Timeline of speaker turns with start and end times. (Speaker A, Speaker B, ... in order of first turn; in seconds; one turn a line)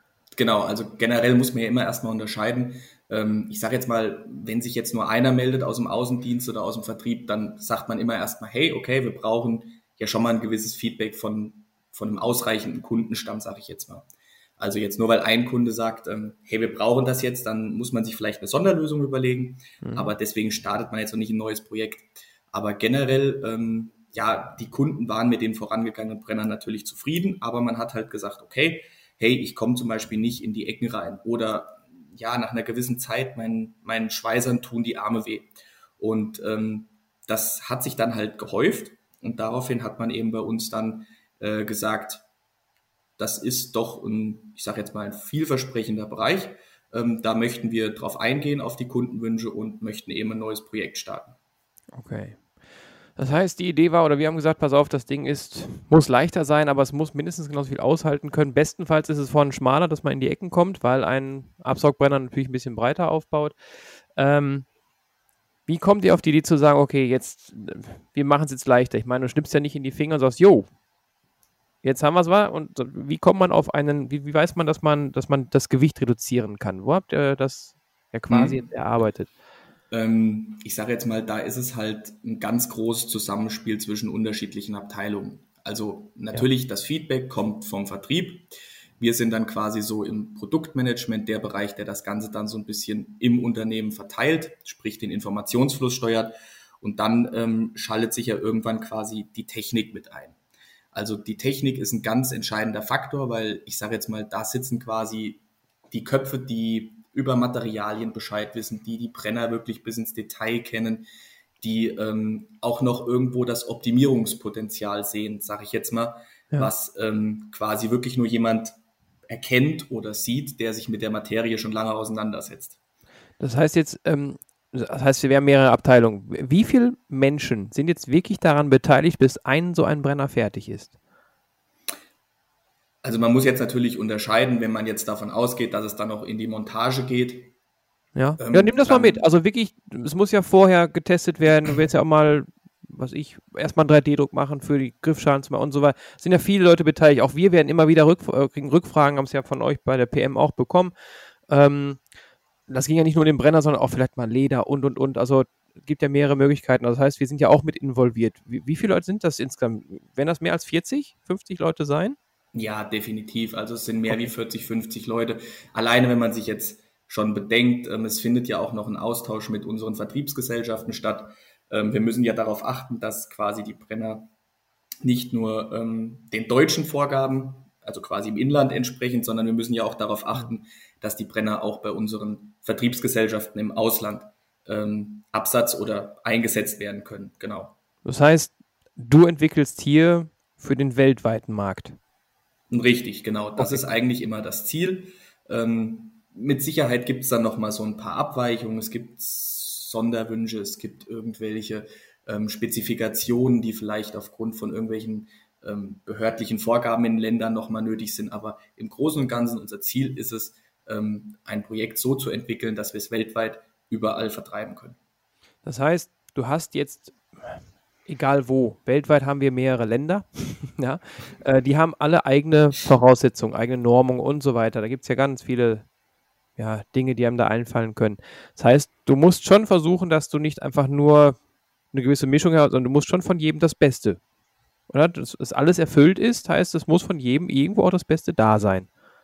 Speaker A: 0.3-14.1
Speaker A: 14.6-42.2
Speaker B: 19.8-20.1
Speaker A: 43.2-51.4
Speaker B: 51.9-52.4
Speaker B: 53.2-63.5
Speaker B: 64.2-64.7
Speaker B: 65.7-70.7
Speaker B: 71.8-79.3
Speaker A: 78.3-78.6
Speaker A: 79.9-100.4
Speaker A: 100.9-111.1
Speaker A: 111.6-118.7
Speaker A: 119.3-122.8
Speaker B: 123.4-130.9
Speaker A: 133.0-137.5
Speaker B: 138.2-150.9
Speaker A: 138.4-139.2
Speaker B: 151.5-152.0
Speaker B: 152.7-162.2
Speaker A: 162.5-174.3
Speaker A: 175.0-187.8
Speaker B: 188.0-192.0
Speaker A: 192.7-215.0
Speaker B: 193.6-193.8
Speaker B: 215.6-225.9
Speaker B: 226.6-231.4
Speaker B: 231.9-234.2
Speaker B: 234.9-238.9